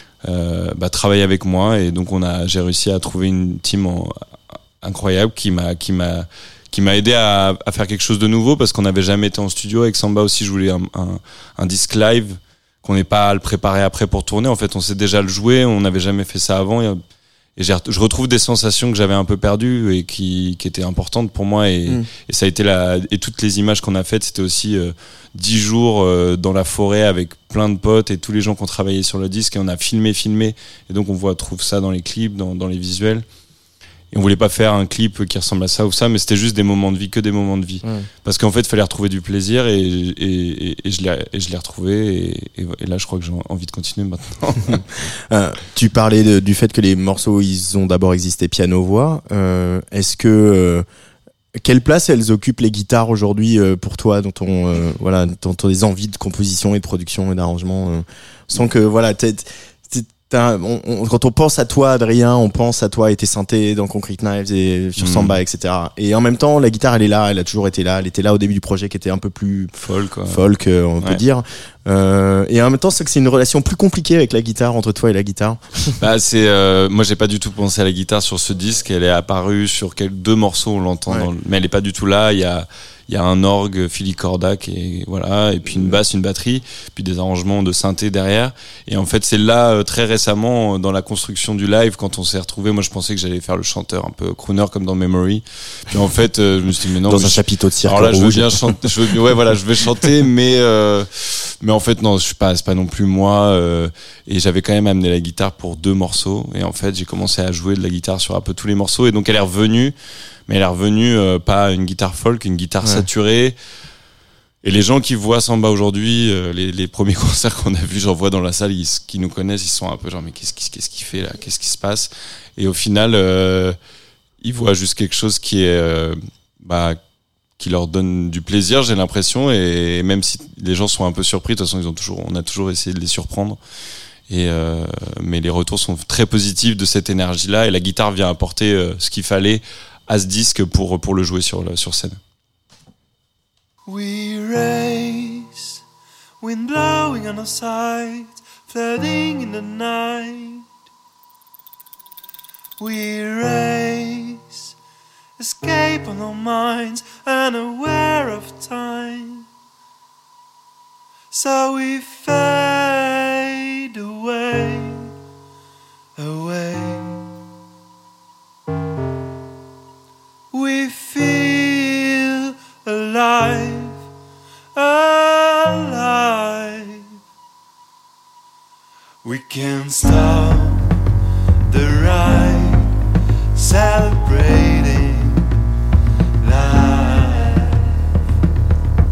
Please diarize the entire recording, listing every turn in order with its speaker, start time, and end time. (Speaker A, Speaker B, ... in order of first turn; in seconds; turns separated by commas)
Speaker A: 0.2-4.2, Speaker A: 4.8-17.0, Speaker A: 17.6-33.2, Speaker A: 34.1-44.9, Speaker B: 44.8-50.9, Speaker B: 51.6-69.7, Speaker A: 65.0-65.4, Speaker A: 69.8-70.4, Speaker B: 70.3-75.9, Speaker A: 76.0-109.9, Speaker B: 85.7-86.0, Speaker B: 97.0-98.8, Speaker A: 110.5-113.6, Speaker A: 114.6-123.8, Speaker A: 124.4-127.0, Speaker A: 127.6-133.6, Speaker A: 134.3-142.2, Speaker C: 143.9-145.8, Speaker C: 146.4-150.7, Speaker C: 152.8-154.7, Speaker C: 155.4-159.5, Speaker C: 161.3-165.1, Speaker C: 166.2-167.2, Speaker C: 170.5-174.0, Speaker C: 174.8-177.1, Speaker C: 179.2-180.9, Speaker C: 181.7-182.9, Speaker C: 183.6-185.5, Speaker C: 186.4-188.0